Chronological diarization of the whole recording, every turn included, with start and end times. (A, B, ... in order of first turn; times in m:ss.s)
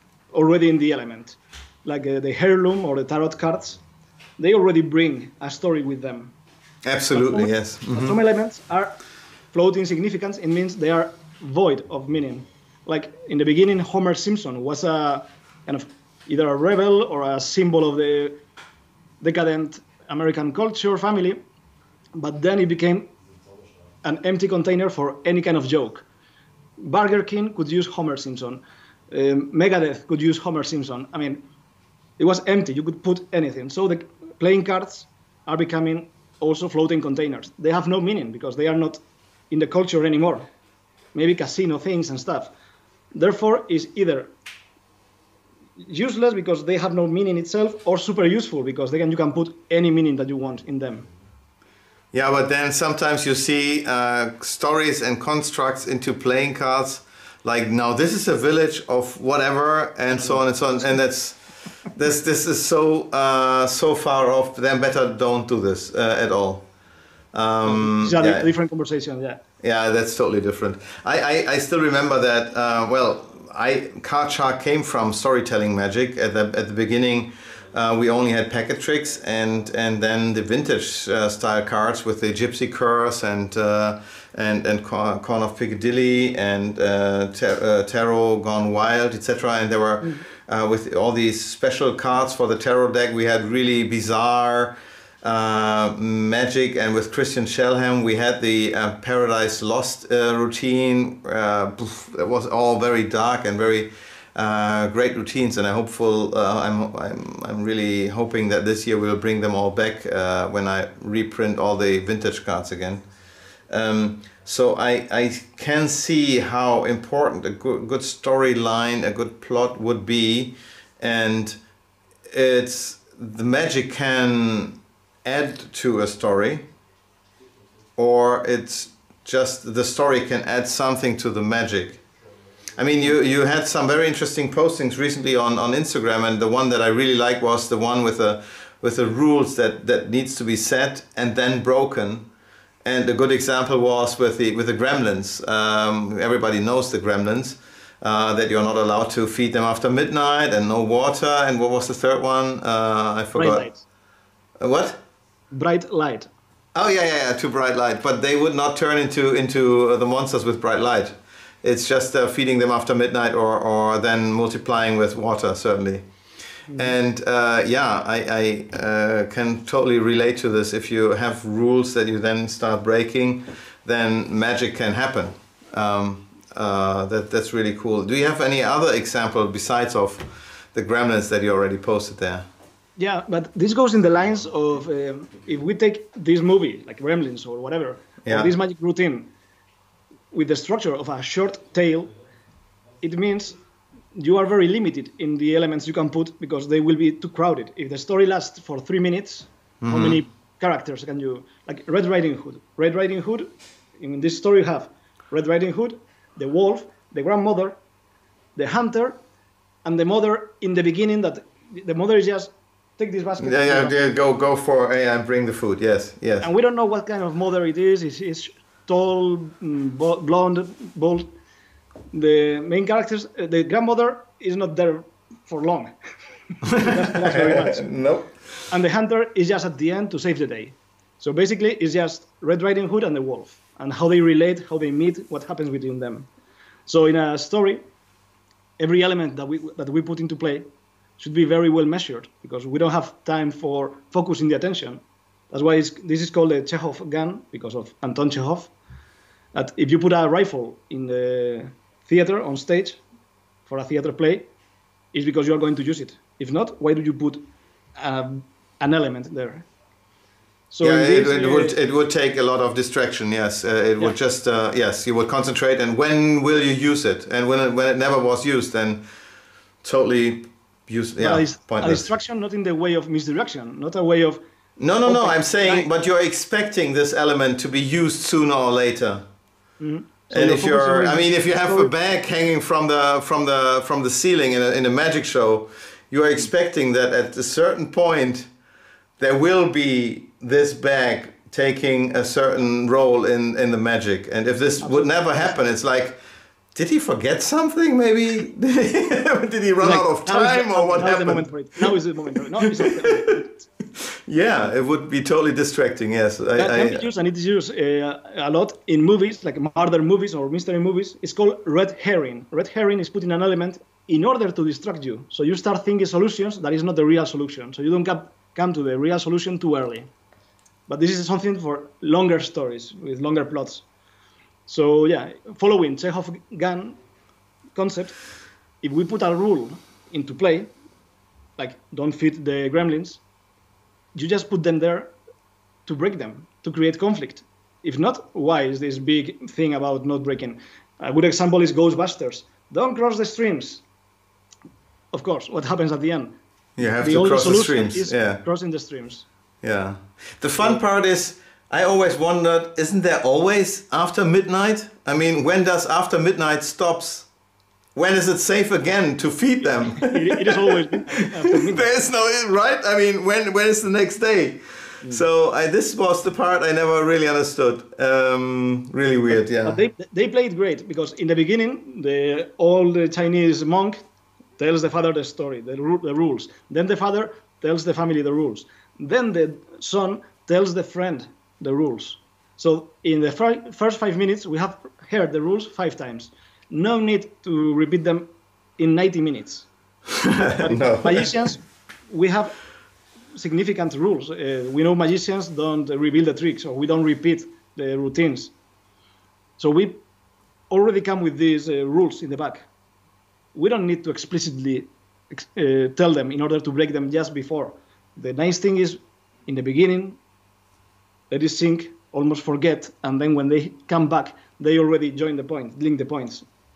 0:00.3-0:03.8 A
0:04.4-0:06.3 A
0:06.8-0:08.2 B
0:07.1-0:09.0 A
0:09.5-0:18.4 A
0:19.2-0:21.4 A
0:22.2-0:23.1 A
0:24.0-0:26.1 A
0:26.8-0:31.4 A
0:32.2-0:40.5 A
0:41.1-0:42.5 A
0:43.1-0:44.3 A
0:45.8-0:51.1 A
0:52.1-1:06.7 B
1:00.1-1:01.0 A
1:07.3-1:08.5 B
1:07.6-1:09.4 A
1:09.6-1:53.0 B
1:53.7-2:01.6 B
2:02.3-2:06.6 B
2:08.0-2:12.0 B
2:12.8-2:22.3 B
2:22.8-2:33.7 B
2:33.3-2:33.8 A
2:34.6-2:35.0 B
2:35.5-2:36.3 A
2:36.8-2:46.0 B
2:46.7-2:46.9 A
2:46.7-3:02.4 B
3:03.0-3:09.3 A
3:08.2-3:08.5 B
3:10.3-3:12.1 A
3:13.0-3:13.6 A
3:14.2-3:27.8 A
3:19.8-3:20.2 B
3:28.6-3:29.2 A
3:29.8-3:34.0 A
3:33.4-3:36.5 B
3:36.4-3:41.3 A
3:42.1-3:45.9 A
3:46.6-3:47.8 A
3:46.8-3:48.6 B
3:48.7-3:56.3 A
3:56.9-3:57.8 A
3:58.8-4:00.7 A
4:01.2-4:08.7 A
4:09.5-4:13.0 A
4:13.7-4:14.5 A
4:15.1-4:17.5 A
4:18.0-4:19.7 A
4:20.7-4:21.8 A
4:20.8-4:29.0 B
4:29.8-4:32.1 B
4:31.2-4:34.4 A
4:34.8-4:39.2 B
4:35.0-4:35.9 A
4:39.8-4:41.9 A
4:40.3-4:48.5 B
4:49.2-4:56.2 B
4:54.8-4:55.6 A
4:56.7-5:01.9 B
4:59.8-5:03.7 A
5:02.6-5:03.4 B
5:04.0-5:07.1 B
5:06.6-5:20.1 A
5:20.9-5:23.8 A
5:24.7-5:27.0 A
5:27.8-5:28.2 A
5:28.8-5:30.7 A
5:31.6-5:33.2 A
5:34.2-5:35.1 A
5:35.9-5:43.8 A
5:45.1-5:46.4 A
5:46.8-5:48.4 B
5:46.9-5:49.3 A
5:49.6-5:57.3 B
5:58.0-6:09.8 B
5:59.6-6:02.1 A
6:09.3-6:14.0 A
6:14.6-6:29.7 A
6:30.2-6:31.4 B
6:30.5-6:32.6 A
6:33.3-6:38.5 A
6:39.6-6:40.0 A
6:40.7-6:42.7 A
6:43.5-6:50.2 A
6:51.3-6:56.4 A